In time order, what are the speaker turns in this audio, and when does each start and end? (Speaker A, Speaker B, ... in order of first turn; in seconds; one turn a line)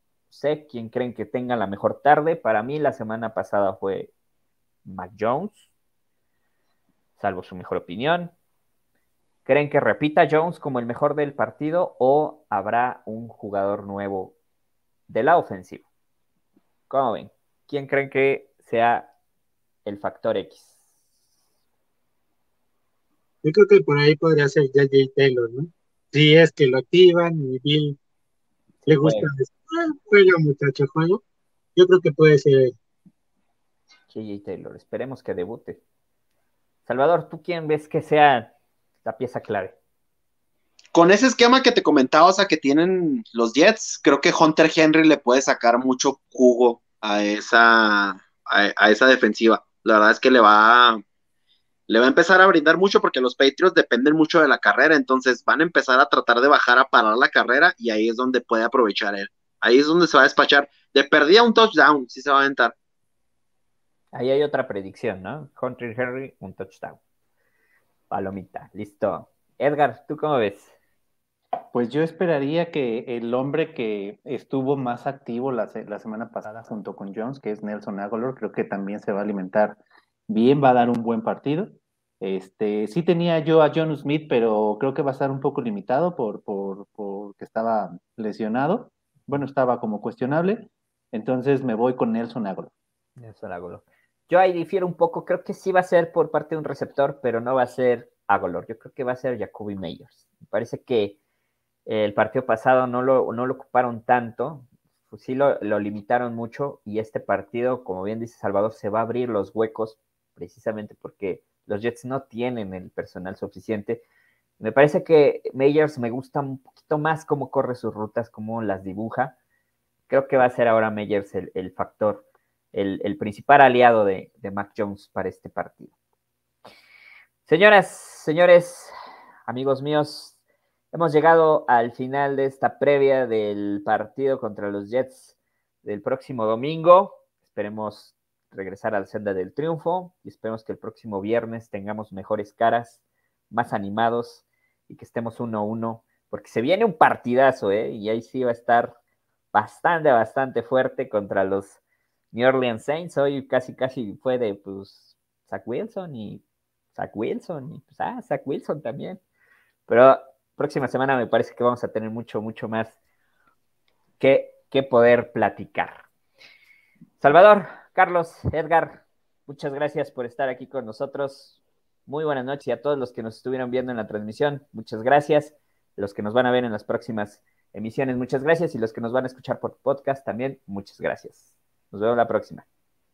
Speaker A: 0.3-4.1
Speaker A: 4.9-5.7
Speaker A: 7.2-8.3
Speaker A: 9.5-14.4
Speaker A: 15.1-15.9
Speaker A: 16.9-19.1
Speaker A: 19.9-20.8
Speaker B: 23.4-28.0
Speaker A: 28.9-29.3
Speaker B: 28.9-31.2
Speaker B: 31.8-32.7
Speaker A: 34.1-35.8
Speaker A: 36.9-38.5
Speaker A: 39.0-39.8
Speaker C: 40.9-51.0
Speaker C: 51.9-62.8
Speaker A: 64.1-67.0
Speaker A: 68.1-70.7
Speaker D: 71.7-92.7
Speaker A: 93.2-101.2
Speaker A: 101.9-114.0
Speaker A: 114.6-119.3
Speaker A: 120.1-125.9
Speaker A: 127.5-128.9
Speaker A: 129.5-130.4
Speaker A: 130.9-143.0
Speaker A: 143.5-148.9
Speaker A: 149.5-151.8
Speaker A: 152.3-156.4
Speaker A: 156.9-159.2
Speaker A: 159.9-163.0
Speaker A: 164.2-166.1
Speaker A: 167.2-171.6
Speaker A: 172.1-182.7